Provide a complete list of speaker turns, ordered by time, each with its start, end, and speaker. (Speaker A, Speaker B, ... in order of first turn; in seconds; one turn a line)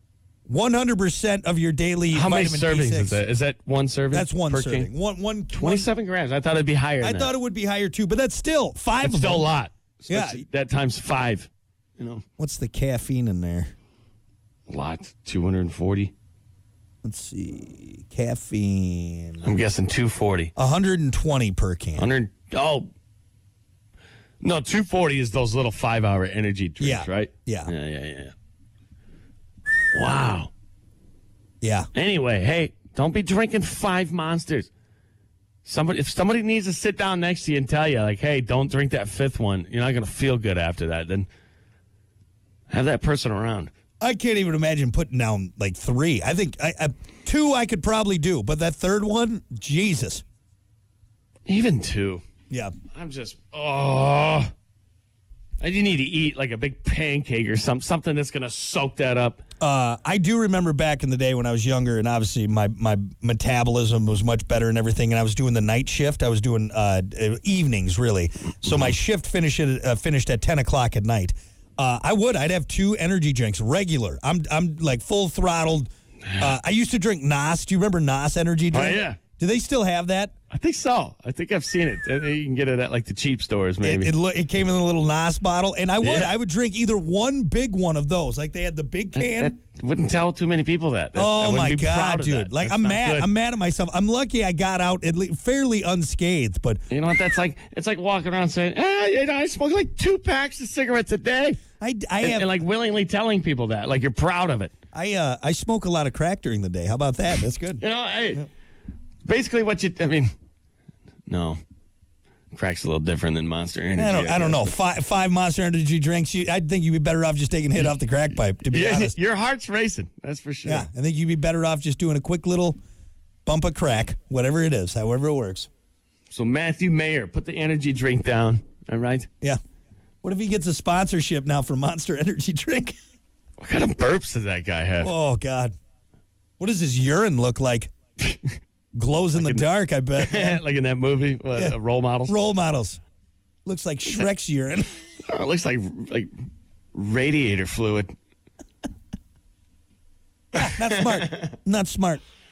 Speaker A: 0.5-3.2
Speaker B: 2.1-4.9
Speaker A: 4.1-5.9
Speaker B: 5.5-7.3
Speaker A: 7.0-9.5
Speaker B: 9.0-12.2
Speaker A: 10.1-10.4
Speaker A: 12.4-13.7
Speaker B: 14.7-16.1
Speaker A: 17.0-19.5
Speaker B: 19.4-20.5
Speaker A: 20.6-22.1
Speaker B: 22.0-22.9
Speaker B: 24.4-28.3
Speaker A: 26.8-27.7
Speaker B: 29.9-30.5
Speaker A: 31.6-31.9
Speaker B: 31.9-34.7
Speaker B: 35.6-41.3
Speaker B: 42.7-43.7
Speaker A: 44.0-50.2
Speaker B: 51.5-52.2
Speaker B: 52.9-54.5
Speaker B: 55.6-59.4
Speaker A: 59.6-80.3
Speaker B: 78.7-79.2
Speaker B: 80.5-84.1
Speaker A: 83.8-89.5
Speaker B: 86.0-86.3
Speaker B: 89.2-93.3
Speaker A: 91.2-96.8
Speaker B: 96.9-101.6
Speaker A: 101.8-102.5
Speaker B: 102.2-104.7
Speaker A: 104.9-107.8
Speaker B: 107.8-108.5
Speaker B: 109.3-110.3
Speaker B: 111.3-111.6
Speaker B: 112.5-114.8
Speaker A: 114.0-119.2
Speaker B: 118.7-120.9
Speaker A: 120.7-122.8
Speaker A: 123.5-125.7
Speaker B: 126.3-129.3
Speaker A: 130.2-133.0
Speaker B: 133.6-135.1
Speaker A: 135.0-135.8
Speaker A: 136.6-137.9
Speaker B: 138.3-138.5
Speaker A: 138.9-140.6
Speaker B: 139.4-139.6
Speaker B: 140.2-142.4
Speaker A: 142.3-143.0
Speaker A: 143.7-144.9
Speaker B: 145.2-146.3
Speaker B: 146.9-148.1
Speaker B: 150.6-151.5
Speaker A: 150.6-152.2